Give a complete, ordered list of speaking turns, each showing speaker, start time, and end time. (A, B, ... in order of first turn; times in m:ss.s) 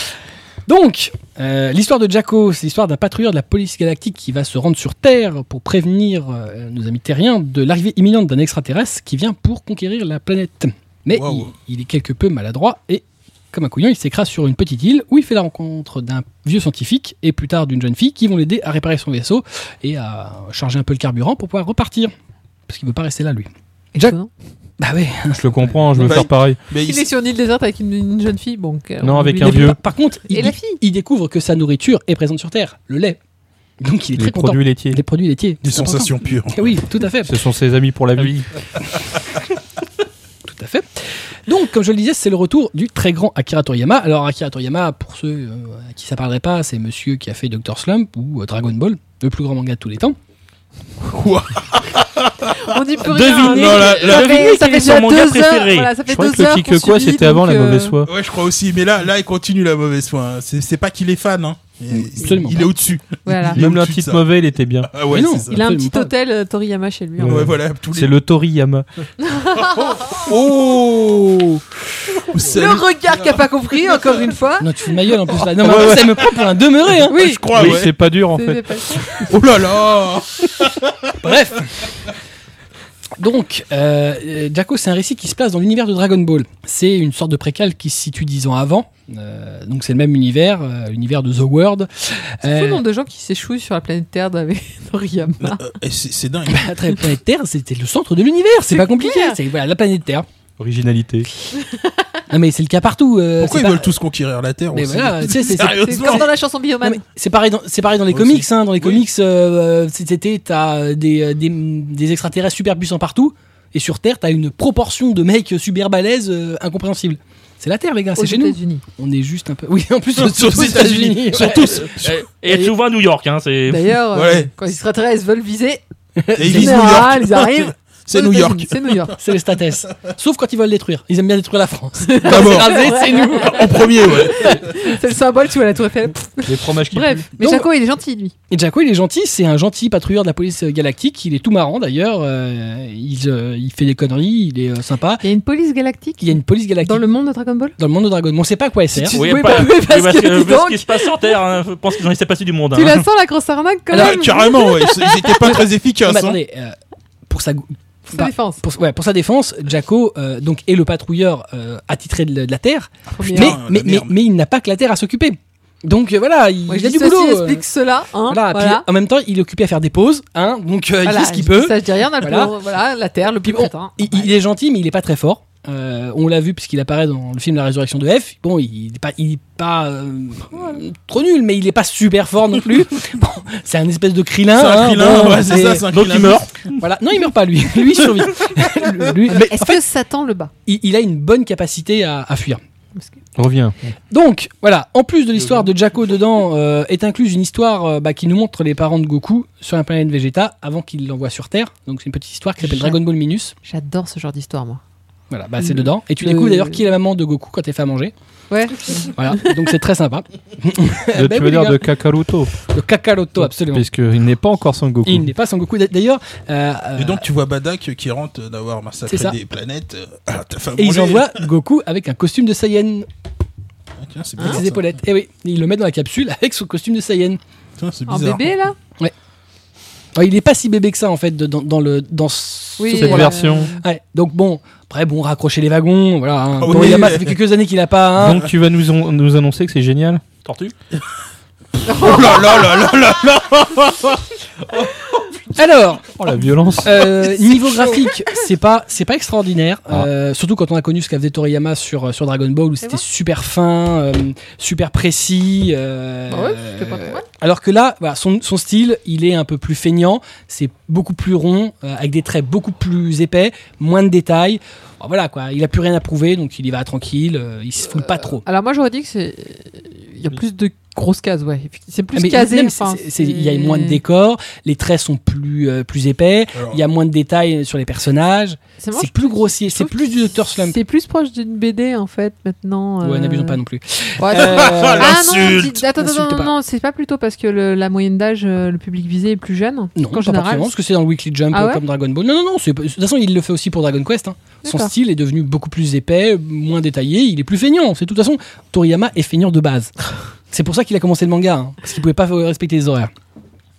0:00.7-0:22.1 A
0:11.1-0:11.5 B
0:22.7-0:24.2 A
0:24.0-0:24.3 C
0:24.8-0:26.3 A
0:25.4-0:26.6 D
0:26.0-0:27.0 B
0:26.8-0:29.8 C
0:29.0-0:29.8 D
0:29.4-0:33.2 A
0:30.3-0:30.8 C
0:33.8-0:37.4 A
0:34.2-0:35.0 D
0:35.6-0:36.8 B
0:37.2-0:38.5 D
0:38.8-0:39.1 A
0:40.4-0:50.2 A
0:51.0-0:54.5 B
0:52.6-0:58.0 C
0:53.1-0:55.9 E
0:56.0-0:58.1 D
0:58.1-1:04.2 B
1:01.9-1:02.7 A
1:03.2-1:03.6 C
1:03.5-1:05.0 D
1:04.9-1:05.6 B
1:05.0-1:06.1 A
1:05.5-1:07.5 C
1:07.2-1:08.8 D
1:07.2-1:08.2 B
1:09.2-1:10.3 C
1:09.6-1:11.7 B
1:12.2-1:13.4 B
1:12.4-1:14.7 C
1:14.6-1:17.2 A
1:15.6-1:16.1 D
1:15.6-1:16.3 B
1:17.0-1:17.9 B
1:17.1-1:17.8 C
1:17.5-1:18.7 D
1:18.3-1:19.2 C
1:19.2-1:21.3 B
1:21.2-1:21.9 A
1:23.2-1:32.8 A
1:32.4-1:35.7 C
1:35.4-1:36.7 B
1:36.5-1:40.3 A
1:38.7-1:39.4 C
1:40.6-1:41.3 D
1:41.5-1:42.0 C
1:42.3-1:43.9 A
1:43.4-1:46.3 B
1:44.7-2:01.8 A
1:45.5-1:47.0 C
1:48.1-1:49.0 B
1:58.2-1:58.8 C
2:00.2-2:02.2 B
2:01.7-2:04.0 E
2:03.7-2:05.8 C
2:04.1-2:04.5 B
2:06.2-2:07.1 A
2:06.4-2:09.2 B
2:06.4-2:09.2 C
2:09.2-2:13.7 A
2:12.0-2:18.3 C
2:12.3-2:14.7 B
2:16.5-2:17.3 D
2:17.4-2:17.7 A
2:18.5-2:25.2 A
2:25.2-2:27.8 C
2:26.2-2:27.1 A
2:27.8-2:29.2 A
2:29.0-2:31.4 C
2:29.1-2:33.0 E
2:32.7-2:35.6 C
2:33.9-2:34.4 A
2:33.9-2:36.4 B
2:35.4-2:36.8 A
2:37.3-2:47.6 A
2:38.1-2:38.6 C
2:43.1-2:44.2 B
2:43.2-2:43.6 C
2:46.7-2:48.8 C
2:48.3-2:52.5 A
2:51.0-2:54.3 C
2:53.4-3:05.9 A
3:04.5-3:06.5 B
3:05.9-3:06.8 E
3:06.8-3:09.8 A
3:09.3-3:10.5 C
3:10.7-3:12.6 A
3:13.4-3:13.8 D
3:14.1-3:23.5 A
3:15.4-3:15.7 E
3:22.6-3:23.0 C
3:23.6-3:24.8 C
3:25.3-3:28.1 A
3:25.6-3:26.8 C
3:28.5-3:29.6 C
3:28.9-3:31.9 A
3:31.1-3:32.6 D
3:32.7-3:33.9 A
3:33.4-3:35.3 D
3:35.1-3:37.2 A
3:37.0-3:41.5 B
3:39.1-3:39.4 A
3:40.8-3:43.1 A
3:44.0-3:44.9 B
3:44.4-3:47.4 A
3:47.8-3:48.5 B
3:48.1-3:48.8 C
3:50.2-3:58.5 A
3:52.8-3:53.8 C
3:52.9-3:53.8 D
3:56.6-3:57.4 B
3:58.2-4:00.2 D
4:00.4-4:00.8 E
4:01.8-4:02.7 C
4:01.9-4:04.9 B
4:05.6-4:06.2 A
4:06.2-4:07.1 D
4:06.8-4:28.4 A
4:16.3-4:17.2 C
4:27.9-4:34.0 C
4:32.2-4:40.8 A
4:36.5-4:36.8 B
4:38.8-4:43.6 C
4:43.0-4:46.5 A
4:44.2-4:50.8 C
4:44.3-4:45.8 B
4:50.0-5:03.1 A
4:51.5-4:51.8 C
4:54.6-4:54.9 C